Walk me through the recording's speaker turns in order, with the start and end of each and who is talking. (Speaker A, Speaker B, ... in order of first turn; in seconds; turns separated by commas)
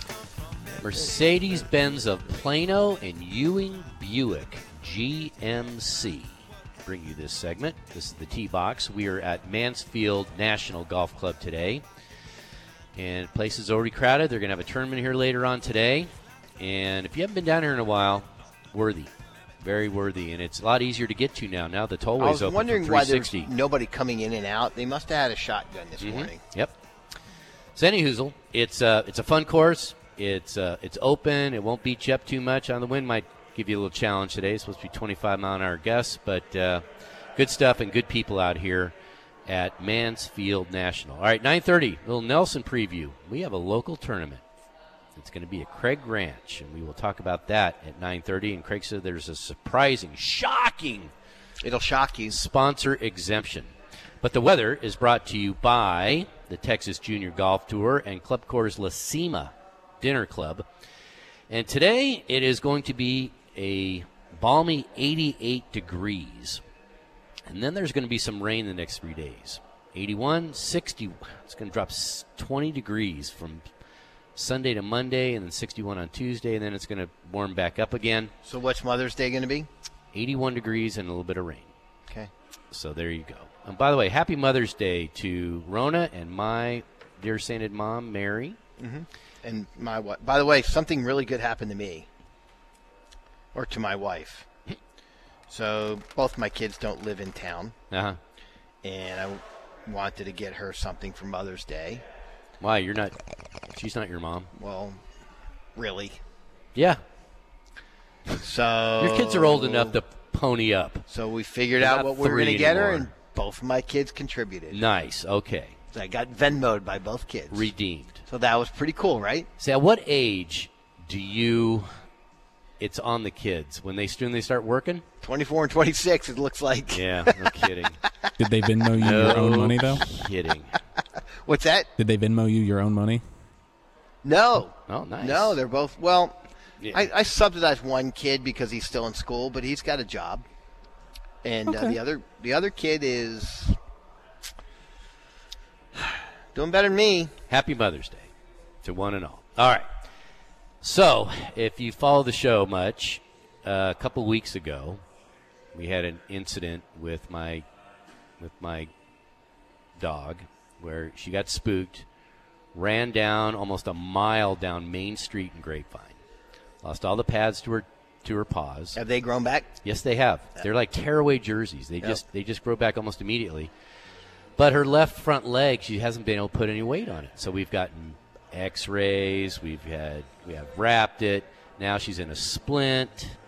Speaker A: 0.8-11.8, Speaker A: 12.9-23.5, Speaker B: 22.2-26.4, Speaker A: 26.0-26.8, Speaker A: 27.7-38.9, Speaker A: 39.5-44.4, Speaker A: 45.1-51.1, Speaker B: 51.6-52.4, Speaker A: 52.3-60.7, Speaker A: 61.5-66.6, Speaker A: 67.5-73.7, Speaker A: 74.3-78.3, Speaker B: 78.4-79.7, Speaker A: 80.1-81.7, Speaker A: 82.7-88.6, Speaker B: 88.8-92.1, Speaker B: 93.5-94.5, Speaker B: 95.5-97.8, Speaker A: 97.9-98.2, Speaker B: 98.8-102.0, Speaker A: 102.6-103.2, Speaker A: 103.7-104.5, Speaker B: 104.5-105.0, Speaker B: 105.8-106.2, Speaker A: 106.7-107.0, Speaker B: 108.4-110.0, Speaker A: 109.0-111.0, Speaker B: 111.1-114.8, Speaker A: 111.8-113.1, Speaker A: 114.7-115.8, Speaker B: 115.9-117.7, Speaker A: 117.5-118.2, Speaker B: 118.3-119.5, Speaker A: 119.6-121.9, Speaker A: 122.8-125.0, Speaker B: 125.2-127.5, Speaker A: 126.9-128.0, Speaker C: 128.5-129.9, Speaker A: 128.9-130.8, Speaker B: 131.4-131.9, Speaker C: 132.0-133.2, Speaker B: 134.2-136.4, Speaker A: 134.9-135.6, Speaker A: 136.8-137.1, Speaker B: 136.9-140.4, Speaker B: 141.4-143.8, Speaker B: 146.0-147.3, Speaker A: 147.5-148.3, Speaker A: 148.8-149.9, Speaker A: 150.8-155.0, Speaker A: 155.7-157.6, Speaker A: 158.4-158.9, Speaker A: 160.0-162.1, Speaker A: 162.7-166.2, Speaker A: 166.8-169.0, Speaker B: 168.9-169.8, Speaker A: 169.8-173.7, Speaker A: 174.6-183.3